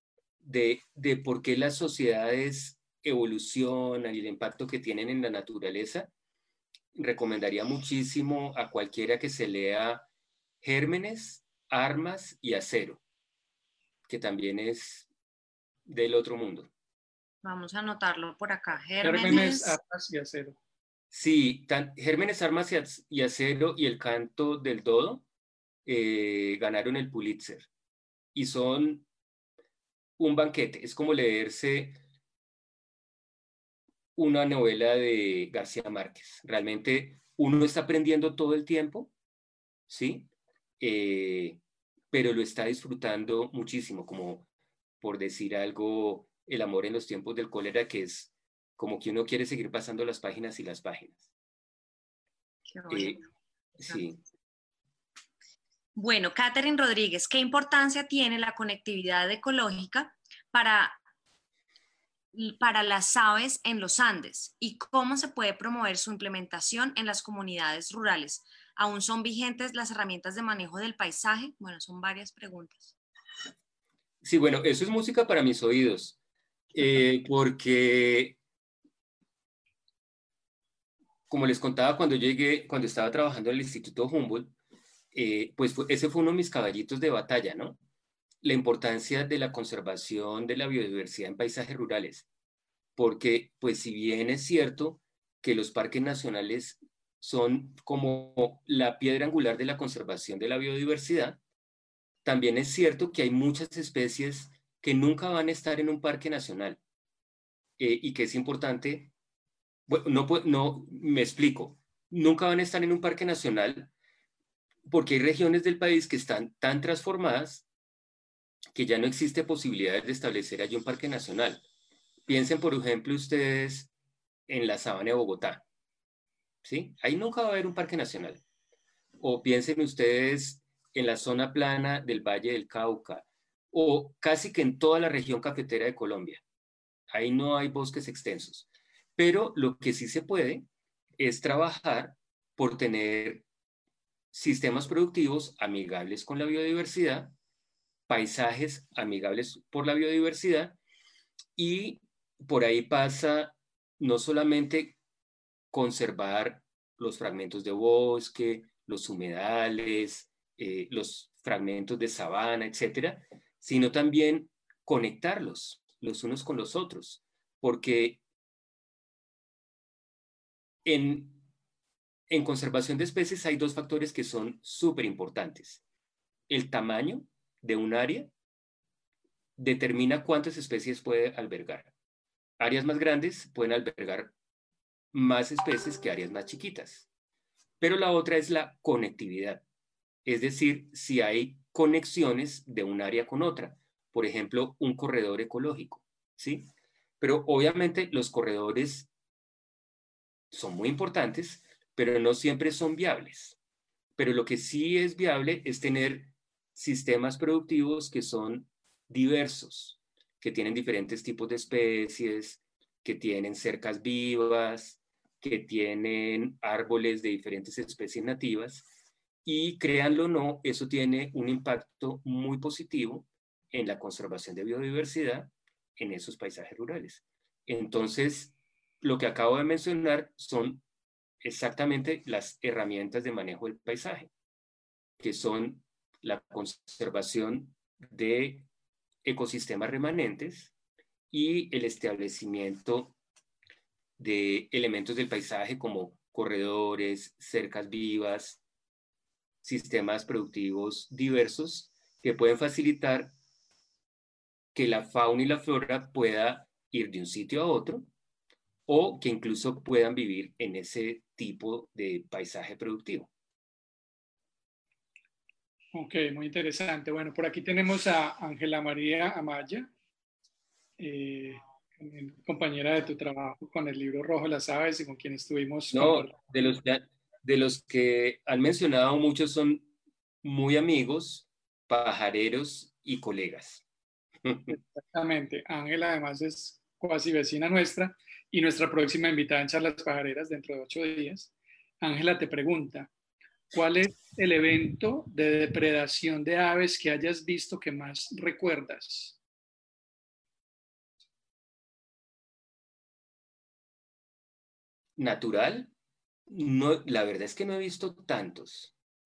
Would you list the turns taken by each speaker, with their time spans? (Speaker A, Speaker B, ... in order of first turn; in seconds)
Speaker A: 0.4-6.1, 7.0-10.1, 10.6-13.0, 14.1-15.1, 15.9-16.7, 21.1-25.2, 25.9-27.7, 28.4-29.1, 30.2-32.0, 34.2-39.1, 39.9-41.6, 42.1-44.5, 45.0-51.2, 52.9-53.2, 53.8-54.2, 74.2-76.2, 76.7-78.4, 81.3-84.5, 85.1-87.8, 88.4-92.3, 93.0-101.4, 102.2-106.8, 107.8-109.1, 109.9-113.9, 114.9-117.7, 118.8-121.6, 122.3-123.9, 124.5-125.6, 126.6-128.4, 129.2-136.4, 137.1-138.7, 139.2-140.7, 141.2-143.5, 144.3-147.3, 148.1-150.8, 151.6-155.0, 155.7-168.2, 170.8-171.4, 172.3-175.8, 176.5-178.3, 179.6-181.9, 182.6-184.3, 185.1-187.1, 187.8-189.6, 190.3-196.7, 197.2-199.1, 200.5-203.6, 204.2-218.9, 219.4-230.8, 231.4-234.3, 235.2-238.7, 239.2-240.7, 241.3-243.2, 244.2-248.6, 249.6-253.3, 254.8-258.1, 258.9-263.3, 275.9-279.9, 280.4-283.8, 284.5-284.8, 305.2-305.9, 306.5-308.9
Speaker B: 17.4-19.8, 52.7-53.2, 56.0-61.0, 62.3-72.9
Speaker C: 19.0-20.6, 265.9-269.9, 271.0-276.3, 284.7-293.1, 293.7-299.4